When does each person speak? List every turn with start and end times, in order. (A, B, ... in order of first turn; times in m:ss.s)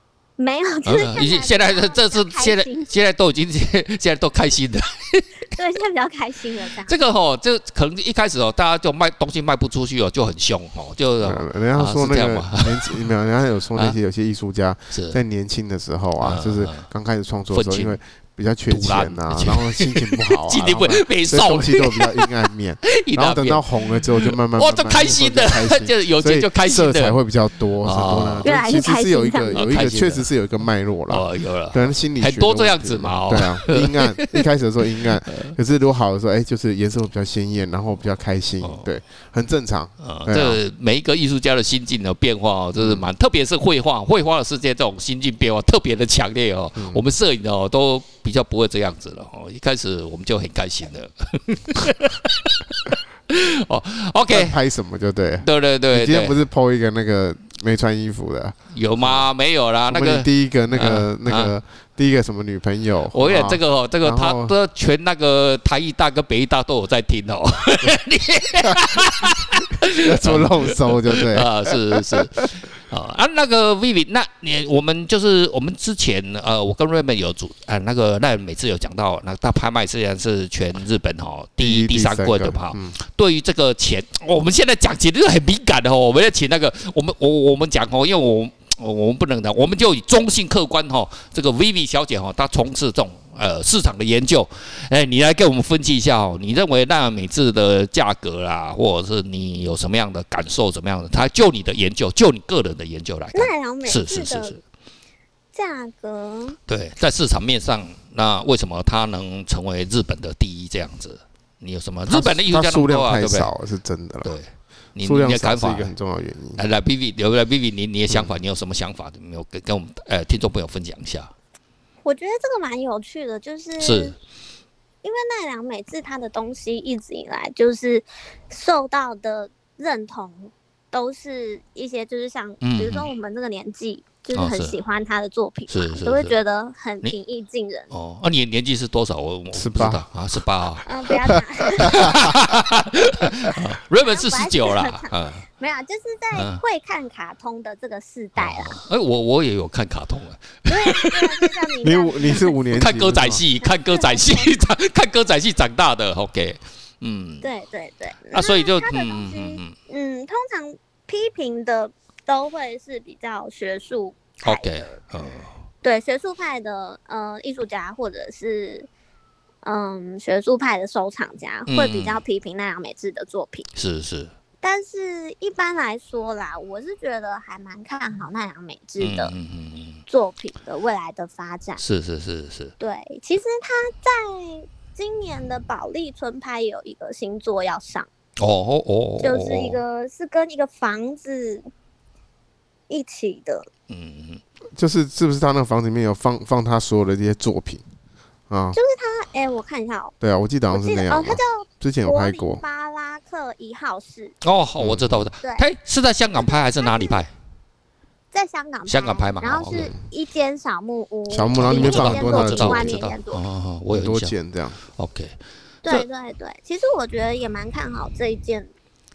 0:00.4-0:02.9 A
0:00.8-0:05.3 B
0:05.5-0:07.0 A
0:06.8-0:13.1 B
0:11.2-0:40.6 C
0:14.9-0:15.2 B
0:16.2-0:16.9 B
0:17.5-0:18.0 B
0:18.7-0:22.3 B
0:22.9-0:27.2 B
0:27.8-0:28.5 B
0:28.4-0:29.7 A
0:29.5-0:30.3 B
0:31.1-0:34.5 B
0:40.0-0:54.5 B
0:42.8-0:43.0 C
0:46.8-0:47.0 C
0:54.3-0:59.3 C
0:55.4-0:56.4 B
0:58.7-1:01.6 B
0:59.9-1:04.5 C
1:03.1-1:44.6 B
1:10.0-1:12.2 C
1:21.6-1:23.0 C
1:43.3-1:44.6 A
1:45.5-1:46.6 A
1:46.7-1:53.5 B
1:52.1-1:54.3 C
1:54.2-1:55.9 B
1:55.0-1:56.6 C
1:56.6-2:01.3 B
2:02.0-2:04.1 A
2:03.8-2:04.1 B
2:05.0-2:17.9 A
2:12.6-2:13.1 B
2:14.3-2:14.8 B
2:15.7-2:16.3 B
2:17.9-2:20.9 B
2:19.5-2:20.0 C
2:20.8-2:22.3 A
2:21.8-2:25.4 B
2:23.0-2:23.3 A
2:23.9-2:28.8 A
2:26.3-2:26.6 B
2:28.4-2:31.5 B
2:30.7-2:32.5 A
2:31.8-2:33.4 C
2:32.3-2:37.5 B
2:33.6-2:34.7 A
2:37.4-2:45.0 A
2:38.3-2:39.7 B
2:44.4-2:45.5 B
2:45.8-2:48.9 A
2:49.6-2:53.7 A
2:51.7-2:52.2 B
2:53.7-2:54.3 B
2:54.6-2:59.3 A
2:59.0-3:00.0 B
3:00.1-3:01.8 A
3:01.8-3:02.7 B
3:02.8-3:08.1 A
3:08.4-3:09.8 B
3:09.2-3:11.7 A
3:12.9-3:13.7 A
3:13.9-3:14.4 B
3:14.8-3:17.8 C
3:18.5-3:18.8 C
3:18.7-3:20.1 A
3:20.2-3:22.6 C
3:20.7-3:24.3 A
3:24.4-3:27.3 B
3:24.8-3:25.3 C
3:26.3-3:27.2 A
3:28.3-3:33.4 A
3:28.9-3:29.9 B
3:29.7-3:30.0 C
3:31.3-3:33.0 C
3:31.6-3:34.3 B
3:33.9-3:34.8 C
3:35.0-3:36.0 B
3:35.8-3:38.7 A